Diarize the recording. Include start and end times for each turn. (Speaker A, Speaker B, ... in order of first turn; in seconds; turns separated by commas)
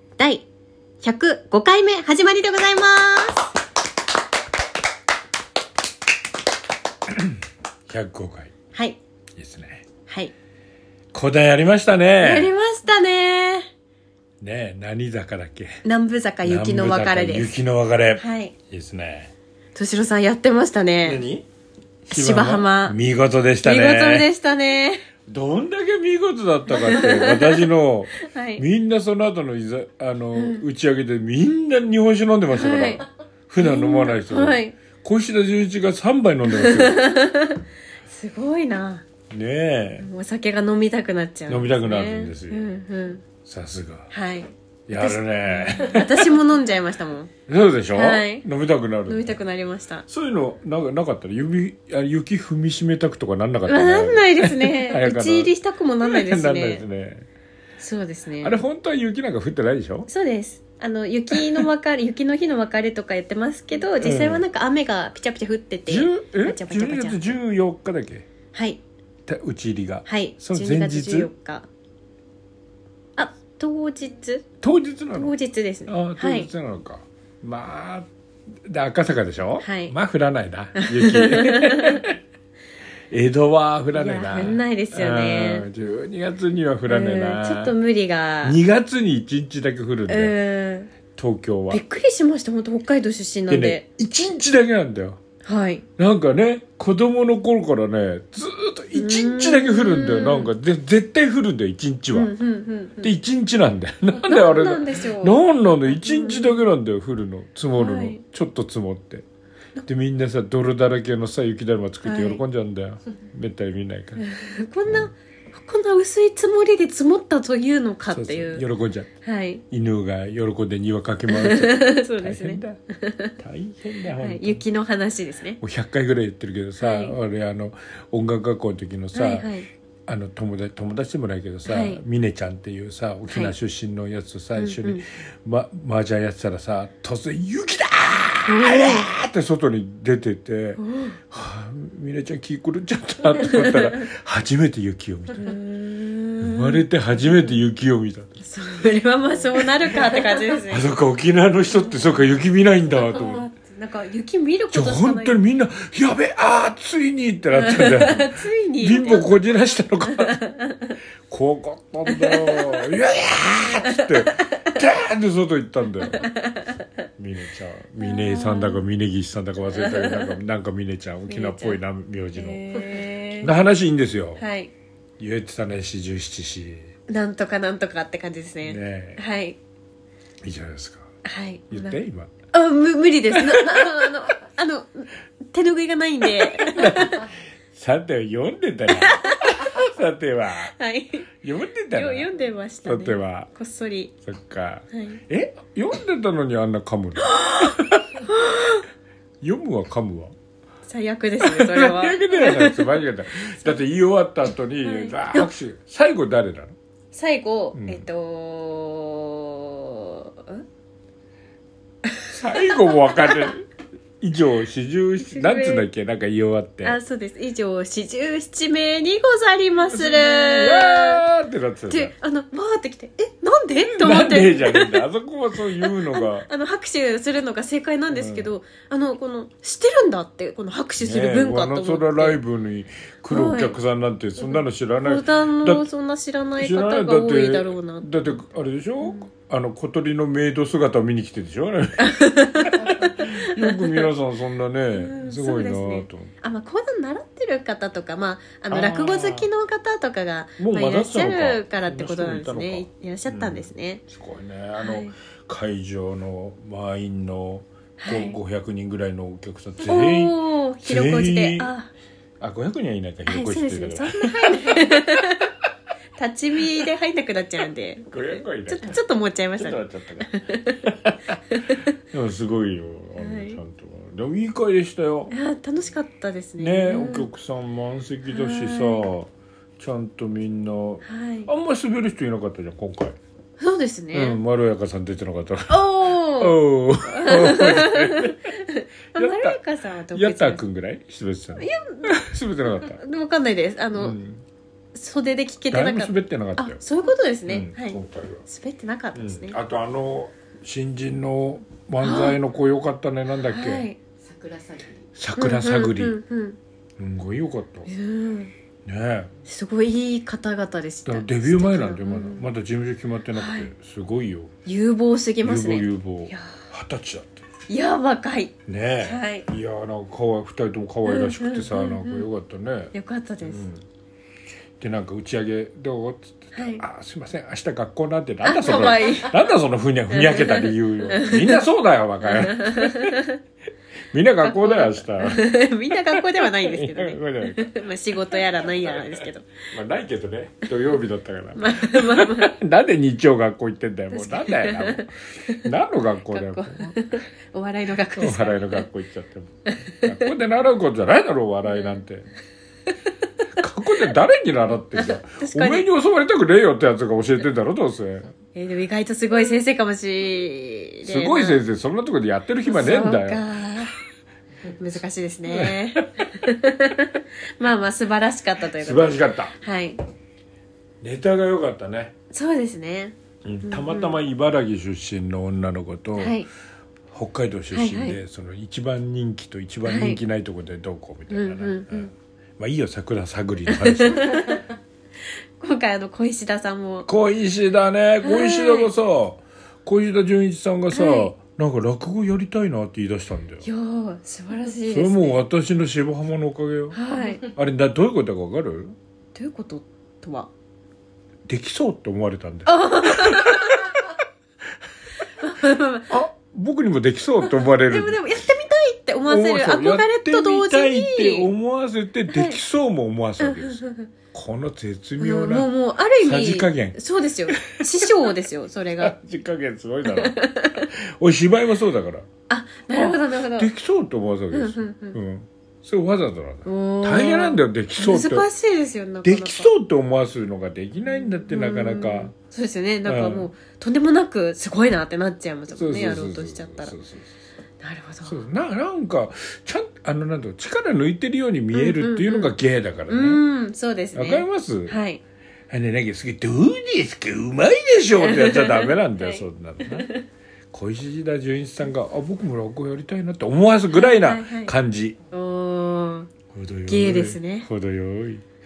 Speaker A: 0.2-0.5, Speaker A: 1.0-3.5, Speaker B: 7.9-8.5, Speaker A: 8.7-9.0, Speaker B: 9.3-9.8, Speaker A: 10.1-10.3, Speaker B: 11.1-12.5, Speaker A: 12.2-13.7, Speaker B: 14.4-15.8, Speaker A: 15.8-17.5, Speaker B: 16.4-19.3, Speaker A: 18.2-18.5, Speaker A: 19.7-21.2, Speaker B: 21.0-21.4, Speaker A: 22.1-23.0, Speaker B: 22.1-24.3, Speaker A: 23.6-25.0, Speaker B: 25.3-37.0, Speaker A: 26.7-27.6, Speaker A: 28.2-28.6, Speaker A: 30.3-30.6, Speaker A: 32.5-33.0, Speaker A: 33.6-34.7, Speaker A: 36.5-39.0, Speaker B: 39.3-40.1, Speaker A: 40.0-43.2, Speaker B: 41.5-42.8, Speaker B: 43.4-44.1, Speaker A: 44.1-47.3, Speaker B: 44.9-46.4, Speaker B: 47.5-49.4, Speaker A: 47.9-48.5, Speaker A: 49.0-50.0, Speaker B: 50.1-55.5, Speaker A: 53.6-56.8, Speaker B: 56.0-57.2, Speaker A: 57.8-58.6, Speaker B: 58.4-60.1, Speaker A: 60.1-67.4, Speaker B: 61.3-61.6, Speaker B: 64.0-64.4, Speaker B: 65.9-68.3, Speaker A: 68.5-68.8, Speaker B: 69.3-71.3, Speaker A: 70.0-71.7, Speaker A: 73.2-74.5, Speaker B: 74.6-75.3, Speaker A: 75.1-76.5, Speaker B: 75.9-78.1, Speaker B: 78.7-82.2, Speaker A: 79.6-79.9, Speaker A: 80.7-82.0, Speaker B: 83.1-87.8, Speaker A: 83.9-85.7, Speaker A: 86.9-88.6, Speaker B: 88.4-90.3, Speaker A: 90.1-90.9, Speaker B: 91.2-91.8, Speaker A: 91.7-93.8, Speaker B: 93.5-95.2, Speaker A: 95.4-95.8, Speaker B: 96.0-102.3, Speaker A: 98.9-100.5, Speaker A: 102.1-103.1, Speaker B: 103.0-109.2, Speaker A: 104.2-106.6, Speaker A: 107.8-108.2, Speaker B: 109.8-114.2, Speaker A: 112.0-112.4, Speaker A: 114.2-118.6, Speaker B: 118.1-119.1, Speaker A: 119.2-119.6, Speaker B: 119.7-122.8, Speaker A: 121.3-123.3, Speaker B: 123.4-124.6, Speaker A: 124.2-125.6, Speaker B: 125.6-129.5, Speaker A: 126.8-127.2, Speaker A: 129.1-129.7, Speaker B: 130.1-145.5, Speaker A: 131.7-132.0, Speaker A: 134.6-135.0, Speaker A: 138.4-139.1, Speaker A: 140.8-141.2, Speaker A: 143.4-144.0, Speaker A: 145.3-147.6, Speaker B: 146.4-148.3, Speaker A: 148.4-150.9, Speaker B: 149.9-153.5, Speaker A: 153.0-155.4, Speaker B: 154.7-160.4, Speaker A: 157.5-159.3, Speaker A: 160.2-161.0, Speaker B: 161.3-166.3, Speaker A: 162.1-162.8, Speaker A: 163.7-164.7, Speaker A: 166.1-166.8, Speaker B: 167.2-172.8, Speaker A: 168.0-168.8, Speaker A: 169.7-170.3, Speaker A: 171.3-171.8, Speaker A: 172.3-173.5, Speaker B: 173.4-174.4, Speaker A: 174.4-174.7, Speaker B: 175.2-176.9, Speaker A: 177.1-179.6, Speaker B: 178.6-179.2, Speaker B: 180.4-181.1, Speaker A: 181.2-182.0, Speaker B: 181.7-182.3, Speaker A: 182.5-187.3, Speaker B: 186.4-190.7, Speaker A: 188.9-189.7, Speaker A: 190.6-191.3, Speaker B: 191.4-192.3, Speaker A: 191.9-194.1, Speaker B: 192.8-193.5, Speaker B: 194.2-198.1, Speaker A: 194.9-195.2, Speaker A: 197.2-198.8, Speaker B: 199.4-200.3, Speaker A: 200.8-203.8, Speaker B: 201.4-206.7, Speaker A: 204.8-205.5, Speaker A: 207.1-210.6, Speaker B: 207.7-208.1, Speaker A: 212.1-213.5, Speaker B: 212.3-213.7, Speaker B: 214.2-217.0, Speaker A: 215.2-215.8, Speaker A: 216.8-221.2, Speaker B: 219.9-222.1, Speaker A: 221.9-225.0, Speaker B: 223.9-226.5, Speaker A: 225.8-232.4, Speaker B: 228.1-228.5, Speaker B: 231.0-235.9, Speaker A: 233.3-233.8, Speaker A: 235.0-238.1, Speaker B: 236.6-246.3, Speaker A: 242.0-244.1, Speaker A: 244.9-254.0, Speaker B: 248.7-249.5, Speaker B: 250.6-261.7, Speaker A: 254.8-255.1, Speaker A: 258.0-258.4, Speaker A: 259.8-261.9, Speaker B: 262.4-265.2, Speaker A: 263.2-265.5, Speaker A: 266.2-270.8, Speaker B: 268.1-269.0, Speaker B: 269.6-270.3, Speaker B: 270.8-271.1, Speaker A: 271.5-271.9, Speaker B: 272.1-275.3, Speaker A: 273.1-273.6, Speaker A: 275.3-277.3, Speaker B: 276.6-283.1, Speaker A: 278.3-279.1, Speaker A: 281.0-281.5, Speaker A: 283.6-284.4, Speaker B: 284.1-288.5, Speaker A: 285.7-290.6, Speaker B: 289.1-289.6, Speaker B: 290.1-293.0, Speaker A: 291.6-292.1, Speaker A: 292.7-294.2, Speaker B: 293.9-294.4, Speaker A: 294.9-299.6, Speaker B: 295.7-296.8, Speaker B: 297.5-298.4, Speaker B: 299.1-303.9, Speaker A: 302.0-302.4, Speaker A: 303.4-304.0, Speaker B: 305.1-306.2, Speaker A: 305.4-306.6, Speaker B: 307.0-307.9, Speaker A: 307.9-308.5, Speaker B: 308.9-309.3, Speaker A: 309.4-312.5, Speaker B: 311.1-314.5, Speaker A: 313.3-313.7, Speaker A: 314.6-316.6, Speaker B: 315.4-317.4, Speaker A: 317.7-319.4, Speaker B: 318.7-323.8, Speaker A: 321.1-322.3, Speaker A: 322.9-323.6, Speaker B: 324.8-333.1, Speaker A: 326.5-326.8, Speaker A: 328.4-329.4, Speaker A: 330.1-331.6, Speaker A: 332.2-333.4, Speaker B: 334.1-335.5, Speaker A: 334.4-339.5, Speaker B: 336.1-345.1, Speaker A: 341.5-342.5, Speaker A: 344.1-345.7, Speaker B: 345.6-346.9, Speaker A: 346.2-348.9, Speaker B: 348.1-352.3, Speaker A: 349.7-350.2, Speaker A: 351.6-352.0, Speaker B: 353.6-358.3, Speaker A: 354.9-355.9, Speaker A: 358.5-361.6, Speaker B: 361.0-363.4, Speaker A: 362.6-363.9, Speaker A: 364.7-370.0, Speaker B: 365.5-366.0, Speaker B: 368.8-369.5, Speaker B: 371.0-372.1, Speaker A: 372.3-374.2, Speaker B: 373.4-376.4, Speaker A: 376.2-376.5, Speaker B: 377.1-384.4, Speaker A: 377.7-378.2, Speaker A: 379.8-380.2, Speaker A: 381.3-382.1, Speaker A: 383.6-384.6, Speaker A: 385.6-387.1, Speaker B: 387.1-393.7, Speaker A: 388.2-388.9, Speaker A: 390.9-391.3, Speaker A: 393.6-395.4, Speaker B: 394.9-398.9, Speaker A: 396.9-397.5, Speaker A: 399.3-400.5, Speaker B: 401.5-404.0, Speaker A: 402.6-404.0, Speaker A: 405.3-406.1, Speaker B: 406.1-408.2, Speaker A: 407.4-411.5, Speaker B: 409.3-415.7, Speaker A: 412.3-412.6, Speaker A: 413.4-414.1, Speaker A: 415.2-419.1, Speaker B: 416.2-418.3, Speaker B: 419.0-422.2, Speaker A: 420.0-420.9, Speaker A: 422.5-423.7, Speaker B: 422.9-428.5, Speaker A: 424.5-425.2, Speaker A: 426.6-429.7, Speaker B: 429.2-432.3, Speaker A: 431.0-436.9, Speaker B: 433.1-433.5, Speaker B: 435.7-437.3, Speaker A: 437.8-438.4, Speaker B: 438.2-443.4, Speaker A: 441.7-442.5, Speaker A: 443.1-445.2, Speaker B: 444.1-445.0, Speaker B: 445.7-450.1, Speaker A: 448.2-450.2, Speaker B: 450.7-455.1, Speaker A: 453.9-454.7, Speaker A: 455.3-456.3, Speaker B: 456.5-458.4, Speaker A: 456.9-457.7